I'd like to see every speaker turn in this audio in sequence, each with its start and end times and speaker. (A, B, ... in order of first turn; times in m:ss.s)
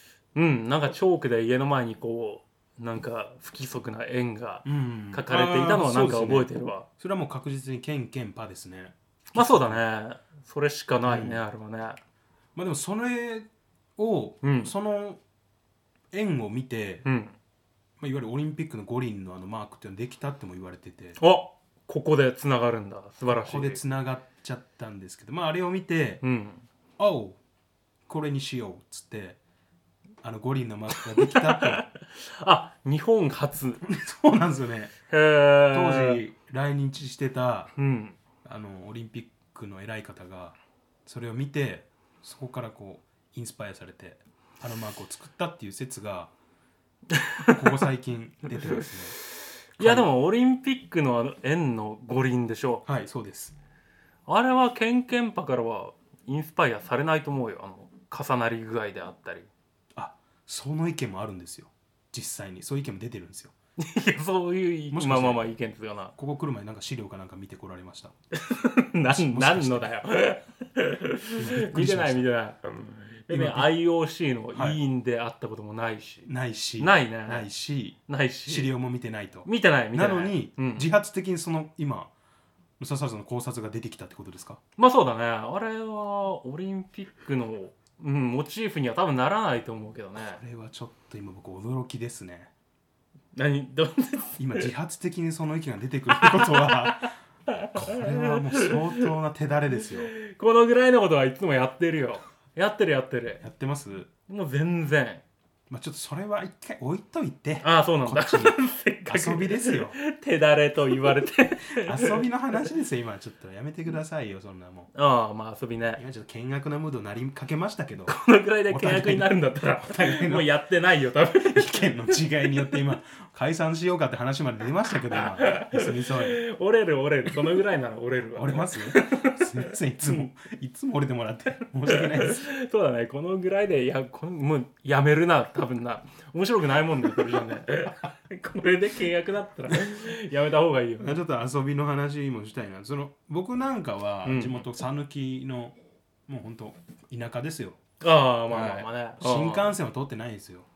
0:00.3-0:06.9 A
0:04.6-0:09.8 B
0:09.3-0:12.0 A
0:11.0-0:11.4 B
0:12.5-0:15.2 B
0:14.4-0:14.7 A
0:16.1-0:17.0 B
0:17.0-0:17.4 A
0:18.0-0:21.2 B
0:21.2-0:23.8 A
0:23.4-0:26.2 B
0:26.2-0:26.6 A
0:27.0-0:27.4 B
0:28.1-0:29.4 B
0:30.2-0:31.8 B
0:31.0-0:33.8 A
0:33.8-0:34.9 B
0:35.1-0:36.2 A
0:35.7-0:37.7 B
0:37.8-0:38.2 A
0:38.4-0:46.3 B
0:47.1-0:47.6 A
0:47.5-0:49.2 B
0:49.8-0:50.1 B
0:49.8-0:52.8 A
0:52.8-0:53.5 B
0:54.3-0:59.5 A
0:59.9-1:03.5 B
1:03.8-1:06.1 A
1:04.9-1:05.4 B
1:06.2-1:08.1 B
1:08.3-1:17.5 A
1:09.0-1:09.9 B
1:11.3-1:12.3 B
1:13.3-1:13.7 B
1:14.5-1:14.8 B
1:16.2-1:22.1 B
1:18.1-1:18.7 A
1:19.4-1:20.9 A
1:22.8-1:24.6 B
1:24.8-1:30.4 A
1:30.2-1:32.5 B
1:33.3-1:34.7 A
1:34.4-1:37.1 B
1:36.1-1:39.1 A
1:37.7-1:40.1 B
1:40.1-1:43.4 A
1:43.4-1:44.1 B
1:44.3-1:45.2 A
1:45.7-1:50.0 B
1:47.6-1:52.2 A
1:51.7-1:54.9 B
1:54.9-1:56.0 A
1:56.0-2:00.6 B
1:58.1-2:02.2 A
2:01.4-2:06.4 B
2:05.1-2:10.3 A
2:08.3-2:12.5 B
2:11.8-2:21.1 A
2:21.0-2:25.8 B
2:24.2-2:24.6 A
2:26.3-2:27.8 B
2:28.0-2:29.8 A
2:28.5-2:30.6 B